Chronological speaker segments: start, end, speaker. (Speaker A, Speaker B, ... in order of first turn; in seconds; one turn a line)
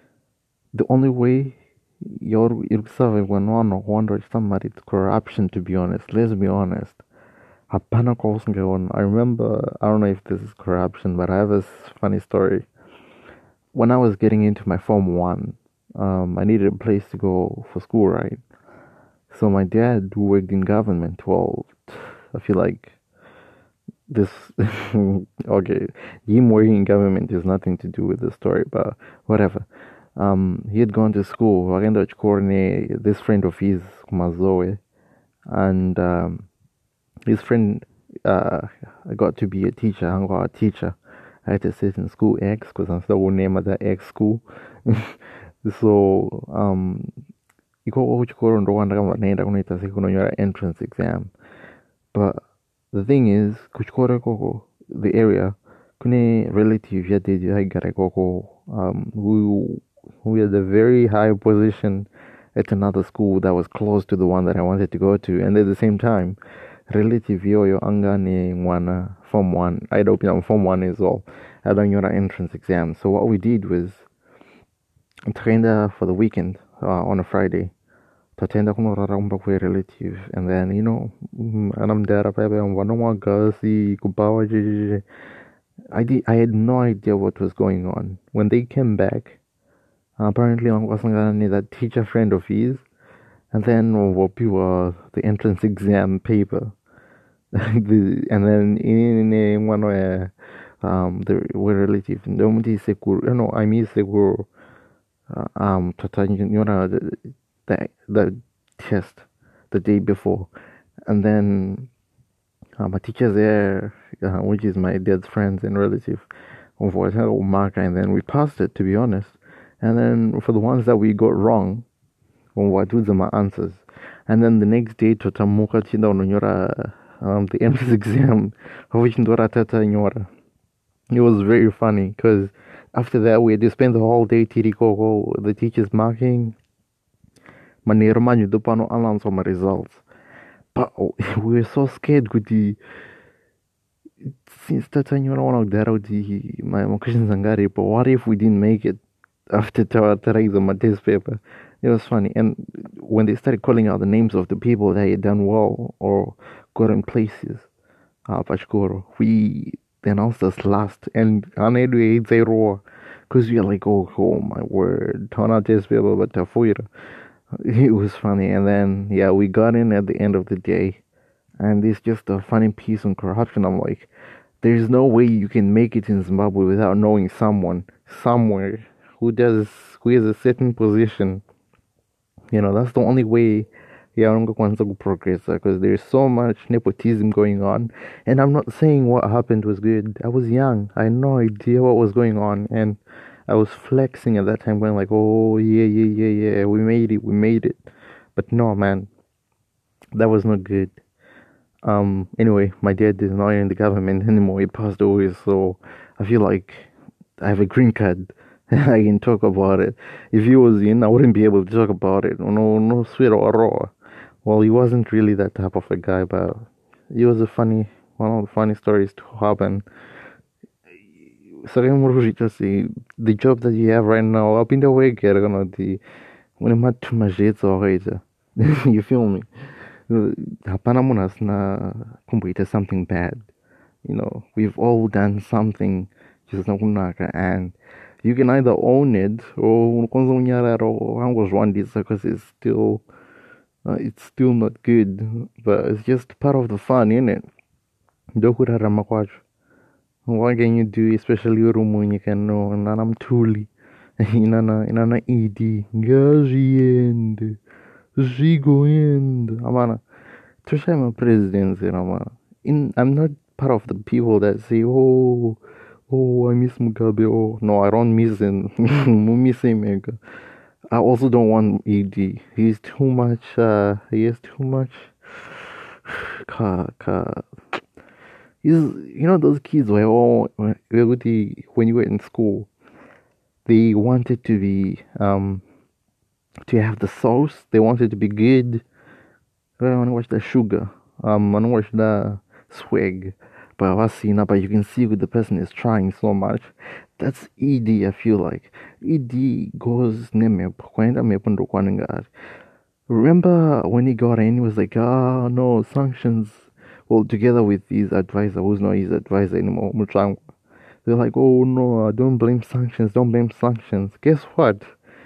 Speaker A: 0.7-7.0
Speaker A: 7.7-12.7
Speaker A: 13.7-18.4
Speaker A: 19.3-23.0
Speaker A: 24.1-34.8
Speaker A: 35.5-36.5
Speaker A: 37.3-47.1
Speaker A: 47.9-51.3
Speaker A: 52.1-66.4
Speaker A: 66.9-74.1
Speaker A: 75.3-77.7
Speaker A: 78.4-85.0
Speaker A: 85.9-89.4
Speaker A: 90.2-92.8
Speaker A: 93.5-96.8
Speaker A: 97.5-104.5
Speaker A: 105.3-110.5
Speaker A: 111.1-111.9
Speaker A: 112.8-116.3
Speaker A: 116.8-121.9
Speaker A: 122.5-130.3
Speaker A: 131.1-136.6
Speaker A: 137.8-140.0
Speaker A: 140.7-142.8
Speaker A: 144.5-149.0
Speaker A: 149.5-157.7
Speaker A: 158.3-166.9
Speaker A: 167.6-171.0
Speaker A: 171.6-181.4
Speaker A: 182.5-199.1
Speaker A: 200.2-201.0
Speaker A: 201.8-213.9
Speaker A: 214.4-219.8
Speaker A: 221.6-226.0
Speaker A: 226.6-229.4
Speaker A: 230.1-233.5
Speaker A: 234.0-243.0
Speaker A: 243.8-247.5
Speaker A: 248.4-249.4
Speaker A: 250.3-257.6
Speaker A: 258.2-260.0
Speaker A: 260.6-270.2
Speaker A: 270.9-277.4
Speaker A: 278.6-282.7
Speaker A: 283.7-285.6
Speaker A: 286.7-288.8
Speaker A: 289.8-302.3
Speaker A: 303.1-310.4
Speaker A: 311.1-314.9